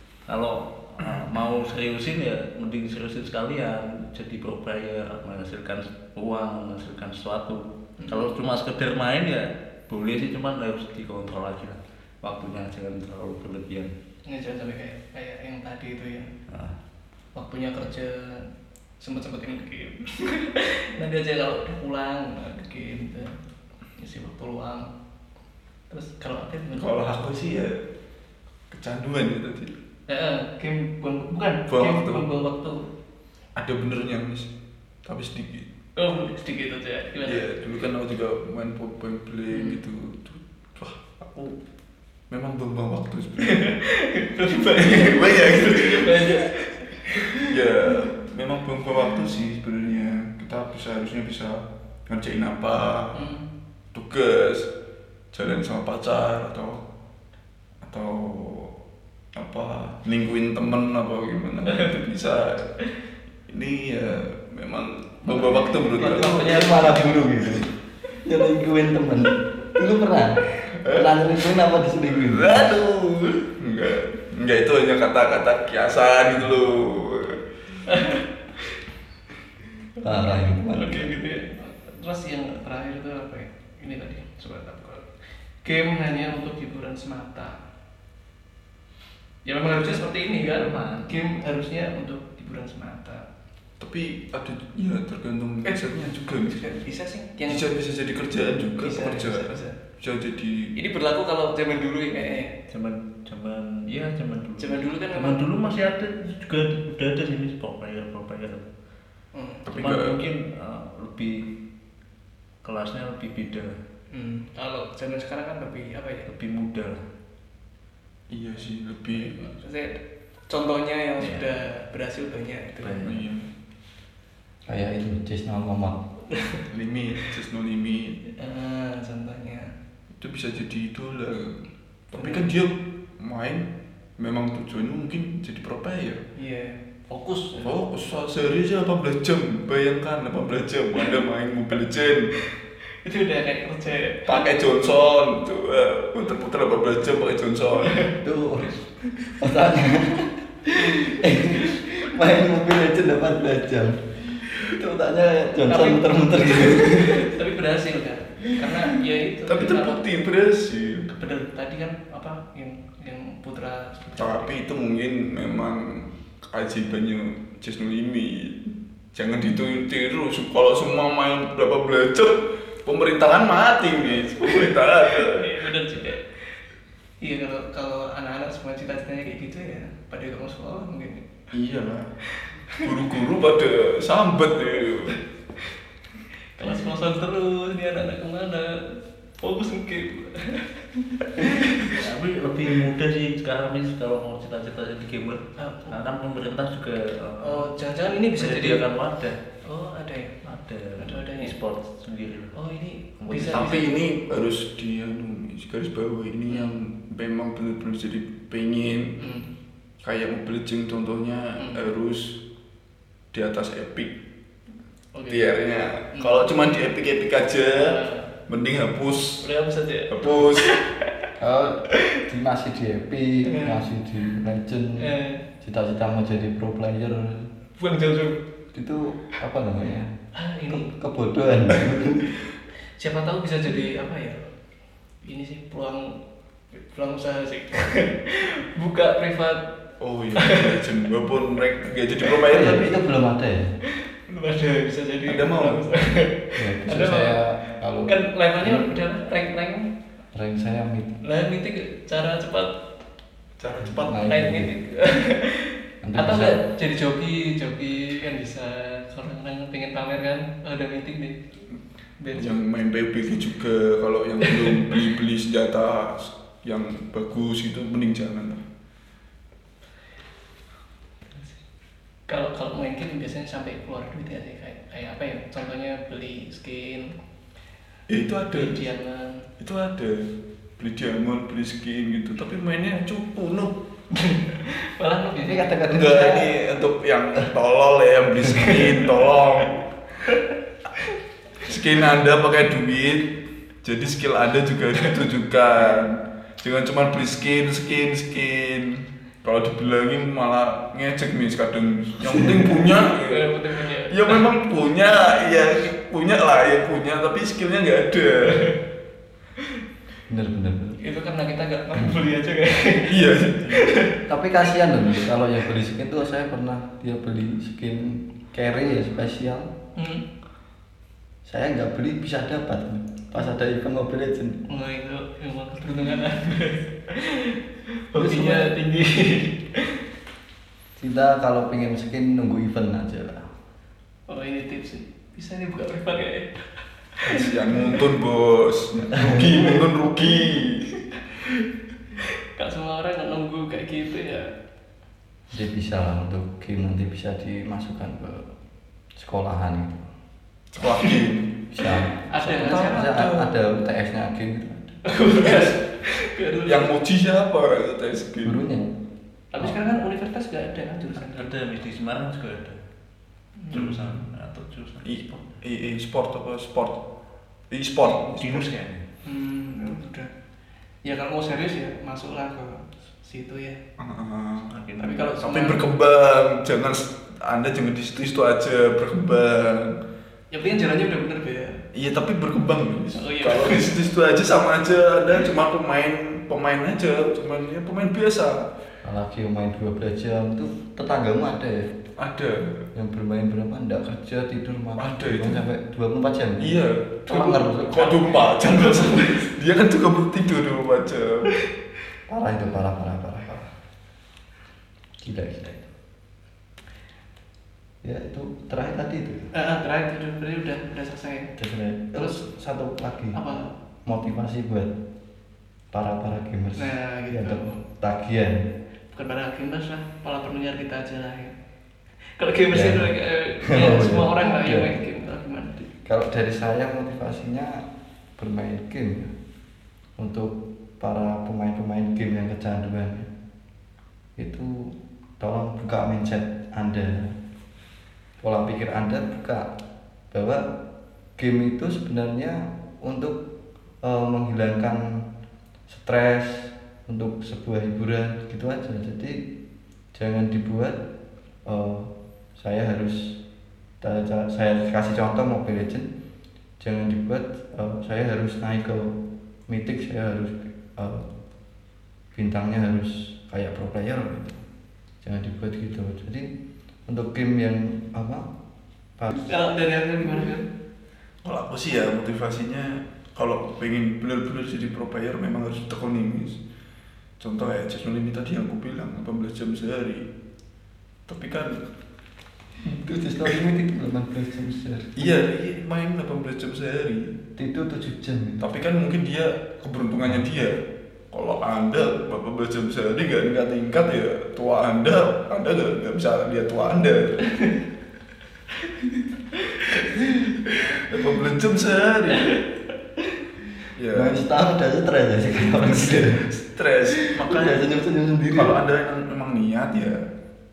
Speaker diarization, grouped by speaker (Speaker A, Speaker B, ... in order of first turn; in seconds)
Speaker A: 0.3-13.9, 16.5-16.8, 89.8-91.1, 102.7-108.7, 109.7-111.5, 112.6-113.8, 116.3-117.0, 121.2-121.5, 122.8-123.2, 191.8-197.7, 198.3-199.4, 200.4-202.6, 203.2-203.9, 361.2-362.8, 363.7-365.4, 368.0-369.0, 374.7-375.2
Speaker B: 1.0-1.3, 26.7-27.8, 28.7-29.7, 31.7-32.2, 33.5-34.5, 35.0-35.7, 37.2-41.6, 42.3-43.6, 44.6-46.5, 47.4-53.2, 53.9-54.7, 55.3-56.8, 57.8-58.7, 59.3-62.7, 63.5-67.3, 70.7-71.2, 72.2-77.4, 93.8-96.7, 97.5-100.7, 109.7-110.2, 118.3-119.4, 123.0-123.5, 126.7-128.2, 130.2-136.2, 137.6-142.3, 144.2-148.1, 159.4-161.1, 164.1-175.6, 181.5-182.1, 182.8-185.2, 203.5-209.2, 210.0-212.4, 213.3-214.2, 215.3-219.5, 220.1-220.7, 240.0-243.0, 245.3-245.8, 253.6-254.3, 262.3-268.6, 278.1-278.9, 279.6-283.8, 285.9-289.8, 291.6-308.7, 313.1-313.9, 328.2-328.7, 337.2-341.0, 350.7-351.6, 352.5-353.5, 355.3-355.8, 356.6-358.6, 363.7-364.3, 365.0-367.0, 367.7-368.7, 374.0-380.0, 381.9-388.7, 392.2-392.8, 395.0-395.6, 396.6-401.5, 471.4-476.6, 477.4-480.3, 481.3-481.8, 485.2-487.4, 488.6-497.7, 500.7-502.5, 503.9-504.4, 505.8-507.9, 508.5-510.3
Speaker C: 8.0-8.3, 14.3-16.3, 17.3-18.4, 19.0-23.4, 24.0-24.9, 25.9-27.0, 30.1-32.8, 36.0-37.5, 39.5-39.8, 43.4-47.5, 53.1-53.5, 65.2-67.3, 77.8-78.3, 80.0-85.1, 85.6-87.6, 89.5-93.2, 95.6-97.7, 98.8-99.8, 100.7-102.5, 104.6-105.5, 109.3-109.7, 114.1-116.3, 119.1-123.0, 126.3-126.6, 128.3-129.7, 132.1-132.4, 136.3-137.8, 143.0-144.4, 147.8-148.1, 155.7-160.0, 161.1-164.5, 174.4-176.4, 177.2-181.2, 182.3-182.8, 186.6-192.0, 195.6-196.0, 197.4-198.8, 199.6-200.4, 201.0-201.5, 202.5-203.9, 206.5-206.7, 209.2-209.5, 211.6-211.8, 215.1-215.5, 216.1-216.7, 217.7-218.3, 219.4-221.3, 223.4-223.8, 225.0-225.4, 227.8-228.4, 230.3-230.9, 233.0-234.4, 235.2-236.1, 236.7-239.6, 240.3-240.8, 242.3-242.6, 244.2-247.4, 248.1-249.9, 251.2-252.8, 254.2-261.4, 262.2-262.5, 264.4-264.9, 272.3-277.1, 278.5-279.4, 284.1-286.4, 302.7-304.5, 308.4-308.7, 311.0-314.2, 319.9-320.2, 324.7-327.6, 328.1-330.0, 334.3-337.9, 342.5-344.5, 352.3-353.3, 355.0-356.9, 359.5-361.5, 363.6-363.9, 369.2-370.3, 371.0-373.8, 375.0-375.8, 380.5-381.8, 383.1-384.0, 397.9-399.4, 409.5-411.5, 412.1-412.4, 413.3-413.7, 416.8-417.8, 419.1-421.5, 422.4-425.8, 469.3-470.6, 499.7-500.2
Speaker D: 66.0-67.7, 68.2-73.0, 80.0-81.1, 124.7-126.0, 148.2-157.3, 221.4-227.4, 228.7-230.1, 230.7-232.3, 242.4-243.7, 246.6-248.9, 250.3-251.2, 253.8-254.7, 256.0-256.6, 285.4-286.5, 310.3-311.0, 314.3-319.7, 321.4-324.6, 331.0-333.5, 345.5-348.5, 349.1-350.1, 351.7-355.0, 358.4-358.9, 389.0-391.9, 392.9-398.3, 402.3-403.6, 405.2-405.9, 408.0-409.5, 411.6-413.4, 414.0-414.9, 415.9-418.7, 422.7-423.1, 423.6-424.9, 426.0-427.8, 428.4-429.3, 430.2-433.3, 434.4-437.4, 438.4-439.7, 440.3-440.7, 441.4-443.4, 444.0-445.2, 445.9-449.5, 450.1-451.0, 451.6-453.4, 454.0-456.1, 456.8-461.2, 462.3-464.6, 465.2-466.5, 467.1-468.5, 482.8-485.4, 487.6-488.6, 504.1-506.5, 507.4-508.7